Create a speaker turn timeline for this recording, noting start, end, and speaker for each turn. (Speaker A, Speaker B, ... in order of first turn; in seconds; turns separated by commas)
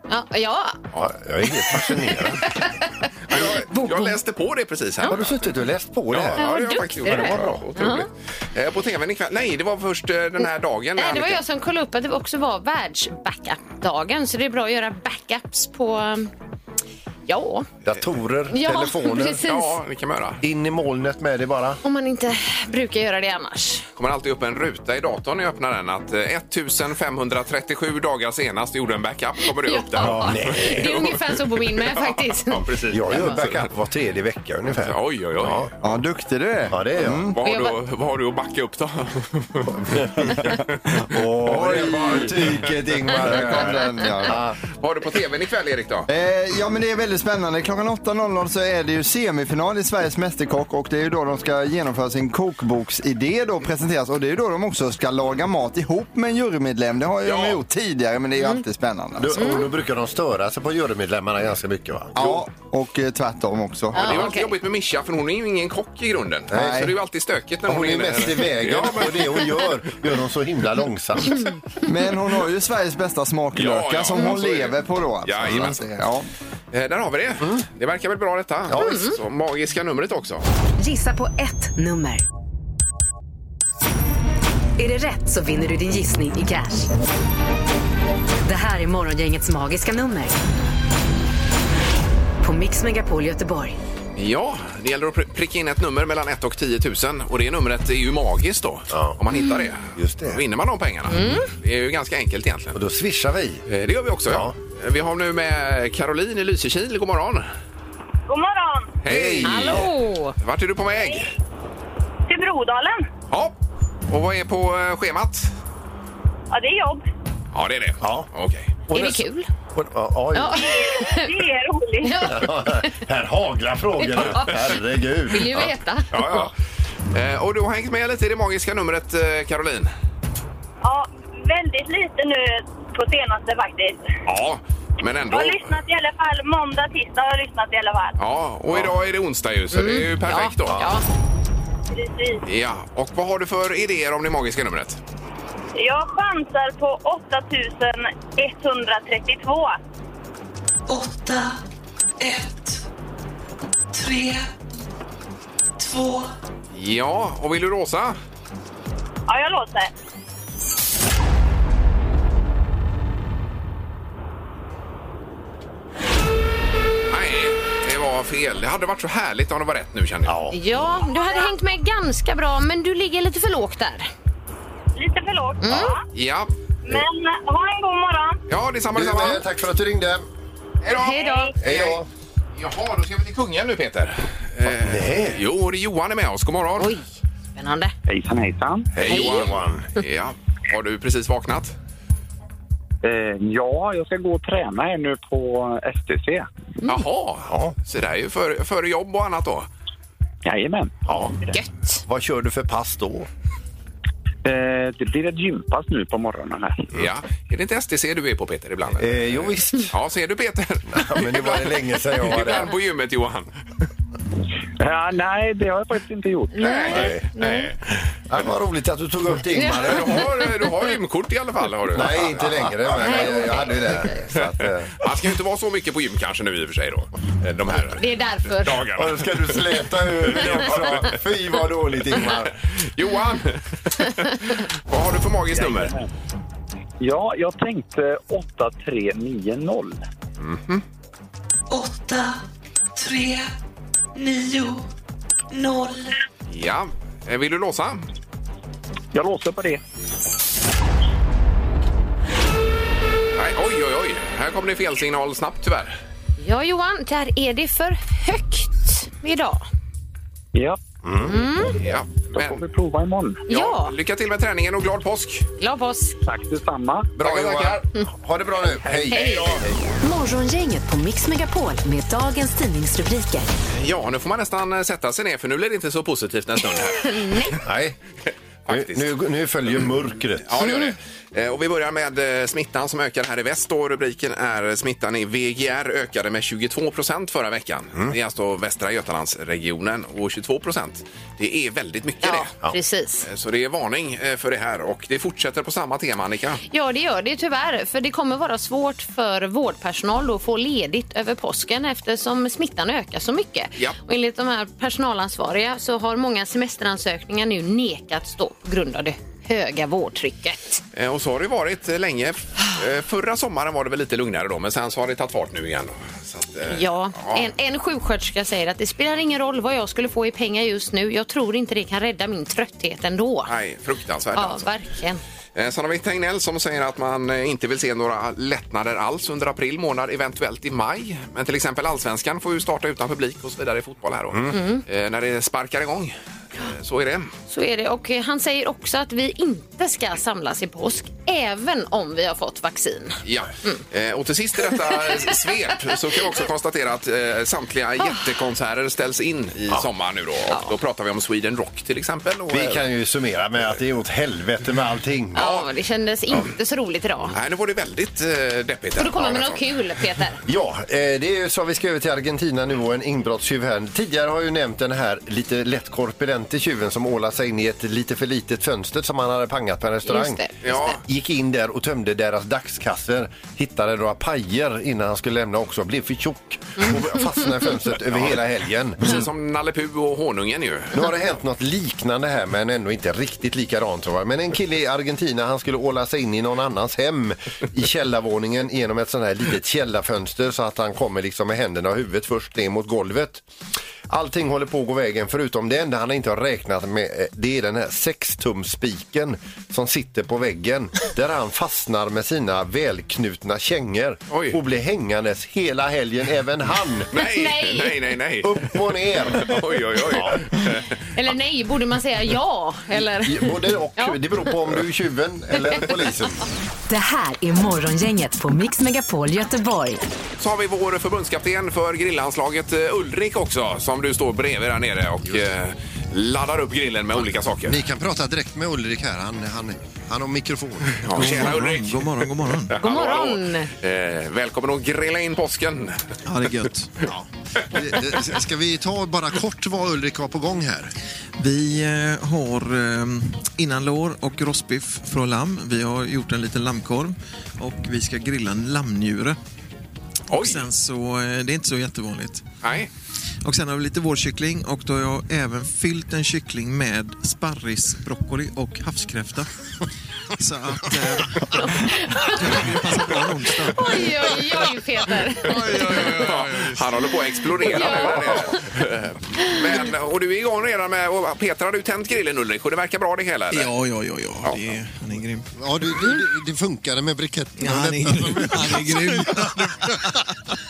Speaker A: 0.1-0.8, Speaker B: 1.0-2.4, Speaker A: 1.8-4.2, Speaker C: 3.3-5.5, Speaker B: 5.1-6.5, Speaker C: 6.1-11.4, Speaker A: 6.4-8.1, Speaker B: 7.0-7.7, Speaker A: 11.0-16.3, Speaker A: 17.3-17.7, Speaker B: 17.8-19.4, Speaker A: 18.5-19.8, Speaker C: 19.4-20.4, Speaker B: 20.4-21.8, Speaker A: 21.8-23.9, Speaker C: 24.0-31.1, Speaker A: 29.4-33.4, Speaker B: 30.0-31.0, Speaker C: 31.7-33.7, Speaker B: 32.9-35.7, Speaker C: 34.8-35.7, Speaker D: 35.8-37.4, Speaker B: 36.7-37.3, Speaker C: 37.3-40.8, Speaker A: 37.4-37.8, Speaker B: 39.7-44.6, Speaker D: 41.4-42.4, Speaker C: 41.6-42.7, Speaker D: 43.2-44.4, Speaker C: 43.3-46.1, Speaker D: 46.1-59.6, Speaker C: 57.2-57.6, Speaker B: 59.2-62.3, Speaker A: 59.4-59.7, Speaker D: 62.1-64.2, Speaker A: 63.9-64.5, Speaker C: 63.9-69.5, Speaker B: 66.5-66.9, Speaker D: 66.5-66.9, Speaker B: 67.7-71.4, Speaker D: 71.8-76.3, Speaker C: 73.5-75.8, Speaker C: 76.7-80.5, Speaker B: 78.7-79.1, Speaker A: 78.8-79.2, Speaker E: 80.8-82.2, Speaker E: 84.8-86.9, Speaker E: 88.5-90.3, Speaker E: 92.4-93.8, Speaker C: 94.2-102.8, Speaker B: 98.9-99.2, Speaker B: 100.0-100.4, Speaker A: 101.1-101.5, Speaker B: 102.7-103.6, Speaker C: 103.7-107.5, Speaker B: 104.3-104.5, Speaker F: 108.3-109.0, Speaker C: 109.0-109.9, Speaker B: 109.1-109.9, Speaker A: 109.4-110.3, Speaker C: 110.4-111.3, Speaker F: 112.3-113.1, Speaker C: 113.3-113.6, Speaker C: 114.1-115.5, Speaker F: 116.5-117.0, Speaker C: 117.5-118.7, Speaker B: 118.0-118.3, Speaker B: 118.9-120.7, Speaker A: 118.9-119.5, Speaker A: 120.3-121.3, Speaker F: 120.5-122.2, Speaker A: 122.0-123.0, Speaker B: 122.2-125.7, Speaker A: 124.0-126.5, Speaker C: 126.1-126.5, Speaker C: 127.1-129.9, Speaker F: 130.8-134.1, Speaker C: 134.3-135.7, Speaker F: 135.2-138.2, Speaker C: 138.2-140.8, Speaker A: 139.7-141.0, Speaker B: 140.7-140.9, Speaker F: 141.9-142.4, Speaker C: 142.5-145.0, Speaker F: 145.8-149.8, Speaker G: 150.9-151.6, Speaker G: 152.2-152.8, Speaker G: 153.9-154.5, Speaker G: 155.8-156.3, Speaker C: 156.7-158.2, Speaker F: 159.3-159.9, Speaker C: 167.1-170.4, Speaker B: 170.3-170.6, Speaker A: 170.5-174.1, Speaker F: 174.9-176.0, Speaker A: 175.6-175.9, Speaker C: 176.1-176.5, Speaker F: 176.8-178.4, Speaker C: 178.5-179.4, Speaker B: 178.9-180.2, Speaker C: 180.8-182.0, Speaker A: 180.9-181.5, Speaker B: 181.6-182.1, Speaker C: 182.6-186.9, Speaker B: 184.7-185.4, Speaker A: 186.8-187.0, Speaker A: 187.6-187.9, Speaker H: 188.1-188.9, Speaker B: 188.9-189.9, Speaker C: 189.0-191.8, Speaker A: 189.1-189.5, Speaker H: 193.0-196.5, Speaker C: 196.9-199.7, Speaker B: 197.5-197.7, Speaker H: 200.4-201.5, Speaker B: 201.1-201.3, Speaker A: 201.5-202.0, Speaker B: 202.1-203.3, Speaker H: 204.4-206.9, Speaker C: 206.9-213.5, Speaker B: 208.9-209.9, Speaker B: 210.9-212.7, Speaker H: 214.8-216.9, Speaker A: 216.5-217.7, Speaker C: 216.6-217.7, Speaker B: 216.9-217.2, Speaker B: 218.3-220.3, Speaker A: 219.5-220.4, Speaker C: 219.8-223.3, Speaker B: 221.9-224.9, Speaker A: 223.0-224.2, Speaker C: 225.0-231.2, Speaker A: 228.0-228.8, Speaker B: 228.9-232.5, Speaker C: 232.3-235.9, Speaker H: 235.5-236.1, Speaker H: 237.0-240.1, Speaker C: 240.4-240.8, Speaker G: 241.7-242.4, Speaker G: 243.0-243.5, Speaker G: 244.2-244.9, Speaker G: 245.5-246.2, Speaker C: 246.5-248.1, Speaker H: 249.1-249.8, Speaker C: 253.4-256.0, Speaker A: 256.4-259.7, Speaker H: 260.5-260.8, Speaker B: 261.0-261.4, Speaker A: 261.2-261.8, Speaker C: 261.8-262.6, Speaker H: 262.3-263.4, Speaker A: 263.5-263.9, Speaker C: 263.5-265.5, Speaker A: 265.6-266.2, Speaker H: 266.2-267.1, Speaker C: 267.2-267.8, Speaker B: 267.2-269.7, Speaker A: 269.1-269.6, Speaker E: 270.0-273.5, Speaker C: 273.7-277.6, Speaker A: 276.9-277.6, Speaker B: 277.6-278.0, Speaker C: 278.7-279.1, Speaker B: 278.7-280.6, Speaker C: 280.5-292.5, Speaker A: 280.6-280.9, Speaker A: 292.2-293.3, Speaker C: 293.2-296.6, Speaker A: 296.7-310.8, Speaker C: 310.9-317.5, Speaker A: 316.7-323.5, Speaker C: 323.5-324.7, Speaker A: 324.3-325.2, Speaker C: 325.6-337.3, Speaker A: 334.5-334.8, Speaker A: 337.5-343.8, Speaker C: 343.2-352.9, Speaker B: 352.5-355.5, Speaker A: 355.4-357.4, Speaker C: 355.4-355.6, Speaker C: 357.3-359.6, Speaker A: 359.0-360.4, Speaker B: 360.5-379.2, Speaker A: 370.1-371.0, Speaker C: 370.6-371.0, Speaker C: 379.0-381.0, Speaker B: 380.9-393.4, Speaker B: 394.1-407.1, Speaker C: 404.3-404.6, Speaker C: 407.1-410.9, Speaker A: 407.1-407.9, Speaker B: 408.4-410.4, Speaker A: 411.2-414.2, Speaker B: 412.9-416.4, Speaker A: 415.6-415.8, Speaker E: 416.9-420.0, Speaker C: 420.4-427.8, Speaker B: 427.6-431.5, Speaker C: 430.9-436.1, Speaker I: 431.1-432.8, Speaker A: 432.8-433.7, Speaker I: 436.3-437.1, Speaker B: 437.1-440.9, Speaker I: 441.4-449.4, Speaker C: 450.3-450.6, Speaker I: 450.3-452.4, Speaker C: 452.6-452.9, Speaker I: 453.4-459.5, Speaker I: 460.4-464.4, Speaker A: 461.5-462.6, Speaker A: 463.7-466.1, Speaker I: 465.5-466.8, Speaker C: 465.8-473.7, Speaker A: 467.7-468.5, Speaker I: 473.5-475.5, Speaker B: 475.6-480.2, Speaker I: 477.6-480.2